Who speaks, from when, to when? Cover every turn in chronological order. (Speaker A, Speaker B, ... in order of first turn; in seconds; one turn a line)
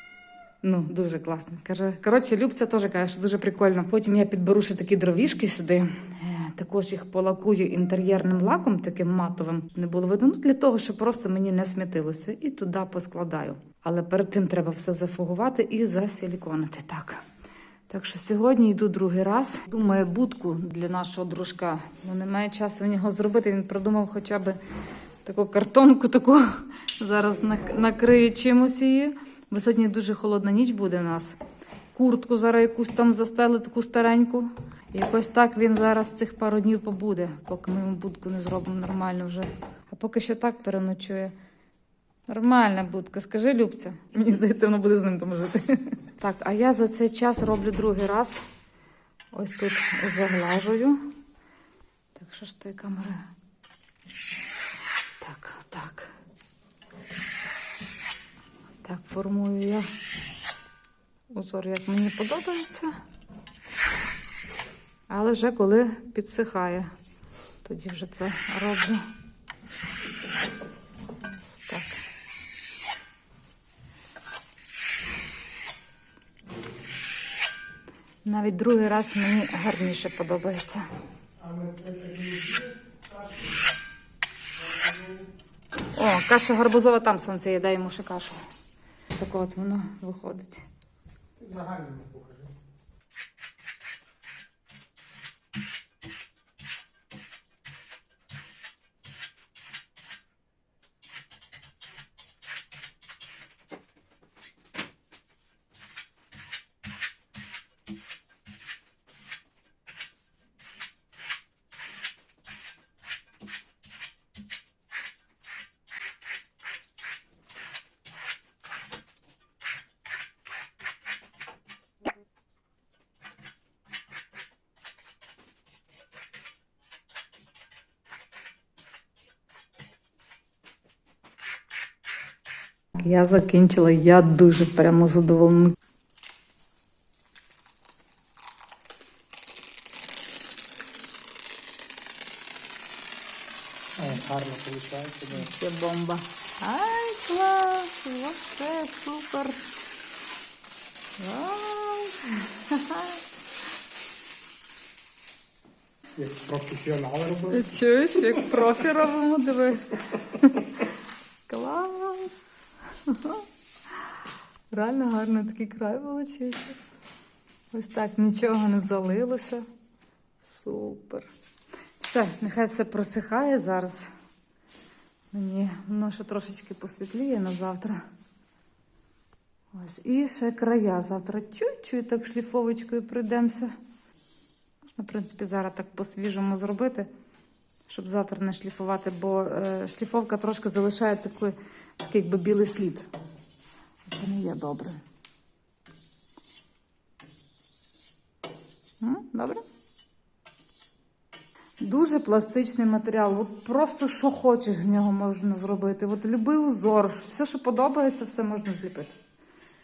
Speaker A: 0.6-17.2
Speaker A: 17.9-24.6
Speaker A: 25.2-31.4
Speaker A: 31.9-41.3
Speaker A: 42.3-48.4
Speaker A: 49.3-51.1
Speaker A: 52.1-53.3
Speaker A: 55.2-56.1
Speaker A: 58.8-59.9
Speaker A: 61.3-62.9
Speaker A: 65.1-66.9
Speaker A: 67.6-69.0
Speaker A: 71.2-72.0
Speaker A: 78.2-80.8
Speaker B: 81.4-83.4
Speaker B: 84.6-85.2
Speaker A: 85.9-88.4
Speaker A: 89.1-90.6
Speaker B: 91.4-92.5
Speaker A: 132.9-135.8
Speaker B: 144.0-145.4
Speaker A: 145.3-149.6
Speaker A: 151.2-153.2
Speaker B: 156.2-157.6
Speaker A: 157.5-160.8
Speaker A: 161.5-164.1
Speaker A: 164.7-166.8
Speaker A: 167.7-169.6
Speaker A: 170.4-171.3
Speaker A: 172.0-174.1
Speaker A: 175.3-178.0
Speaker A: 179.7-183.7
Speaker A: 184.8-187.1
Speaker A: 187.8-193.1
Speaker A: 194.0-195.0
Speaker A: 199.0-199.6
Speaker A: 201.8-209.1